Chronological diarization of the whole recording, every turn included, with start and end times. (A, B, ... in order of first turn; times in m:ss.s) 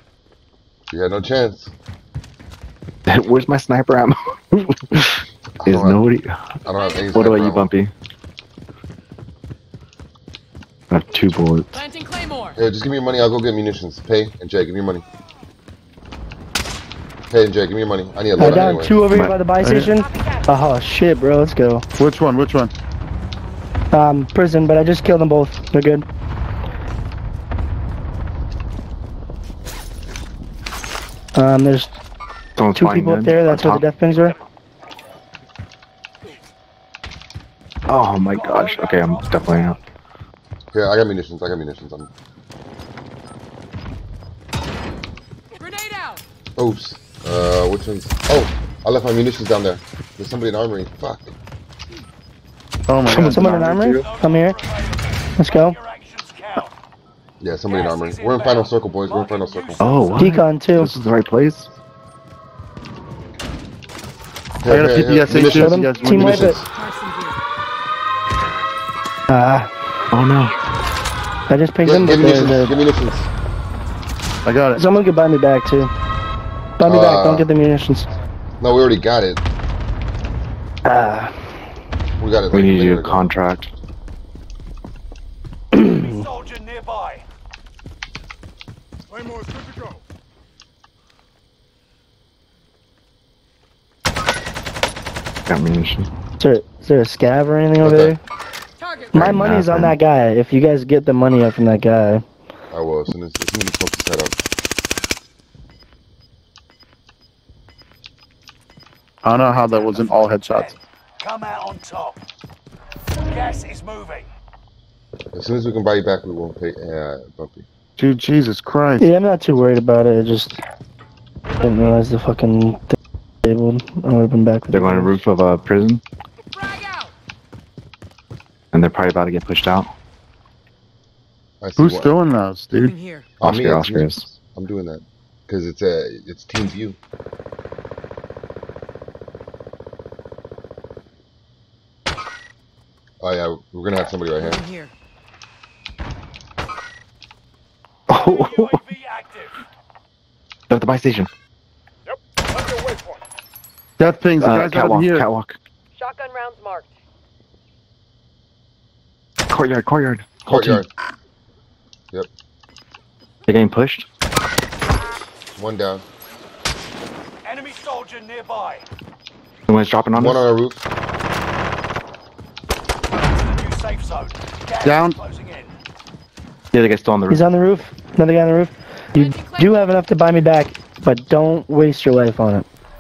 0:00.9-0:01.7 A
0:03.1-0:06.4 B
0:05.6-0:06.0 A
0:06.6-0:07.7 A
0:07.1-0:07.9 B
0:10.9-0:11.8 B
0:11.8-0:12.6 C
0:12.6-0:15.0 A
0:17.3-0:19.0 A
0:18.4-0:21.9 D
0:19.6-0:20.0 E
0:22.0-0:22.7 E
0:23.9-0:26.1 D
0:31.4-0:32.0 D
0:32.6-0:33.8 B
0:32.8-0:34.4 D
0:37.9-0:39.8 B
0:38.3-0:39.8 F
0:40.7-0:42.1 A
0:45.6-0:46.2 C
0:46.6-0:51.4 A
0:52.9-0:54.0 E
0:53.1-0:53.5 B
0:53.2-0:54.6 D
0:53.9-0:56.7 F
0:55.4-0:55.8 D
0:57.4-0:59.9 A
0:57.7-1:00.3 F
0:59.8-1:01.7 B
1:00.2-1:00.9 D
1:04.6-1:06.7 A
1:04.7-1:06.6 E
1:05.5-1:06.6 D
1:06.7-1:07.4 C
1:09.3-1:09.7 D
1:10.1-1:10.6 B
1:11.5-1:12.7 D
1:11.8-1:13.3 A
1:14.4-1:14.8 E
1:14.8-1:15.9 D
1:16.8-1:18.1 D
1:16.8-1:17.5 A
1:18.6-1:19.4 A
1:20.8-1:21.3 D
1:22.2-1:23.3 A
1:22.5-1:23.7 B
1:25.7-1:26.2 D
1:26.0-1:27.2 F
1:35.5-1:36.1 B
1:36.4-1:38.2 D
1:37.8-1:38.2 A
1:38.8-1:39.1 C
1:39.1-1:40.0 B
1:39.1-1:42.2 D
1:42.7-1:44.4 A
1:49.2-1:50.8 E
1:49.6-1:52.2 F
1:53.3-1:54.3 F
1:55.3-1:57.7 A
1:58.0-1:59.1 E
1:59.0-2:00.6 D
2:01.6-2:05.2 D
2:04.7-2:06.0 B
2:06.6-2:07.1 C
2:08.7-2:09.9 B
2:11.6-2:12.1 A
2:11.8-2:12.9 E
2:12.8-2:13.3 C
2:13.4-2:17.0 A
2:13.4-2:14.3 B
2:23.2-2:24.6 A
2:24.4-2:24.9 C
2:28.1-2:28.8 B
2:28.1-2:29.6 F
2:30.7-2:31.3 B
2:34.0-2:35.3 E
2:34.4-2:35.6 B
2:36.0-2:36.9 C
2:39.5-2:40.8 B
2:40.5-2:40.9 A
2:43.5-2:44.1 B
2:45.5-2:46.0 A
2:47.4-2:48.8 F
2:49.7-2:50.4 B
2:50.1-2:50.8 A
2:53.3-2:55.7 F
2:54.8-2:55.2 E
2:56.7-2:57.5 B
2:57.3-3:02.7 D
2:59.3-2:59.6 C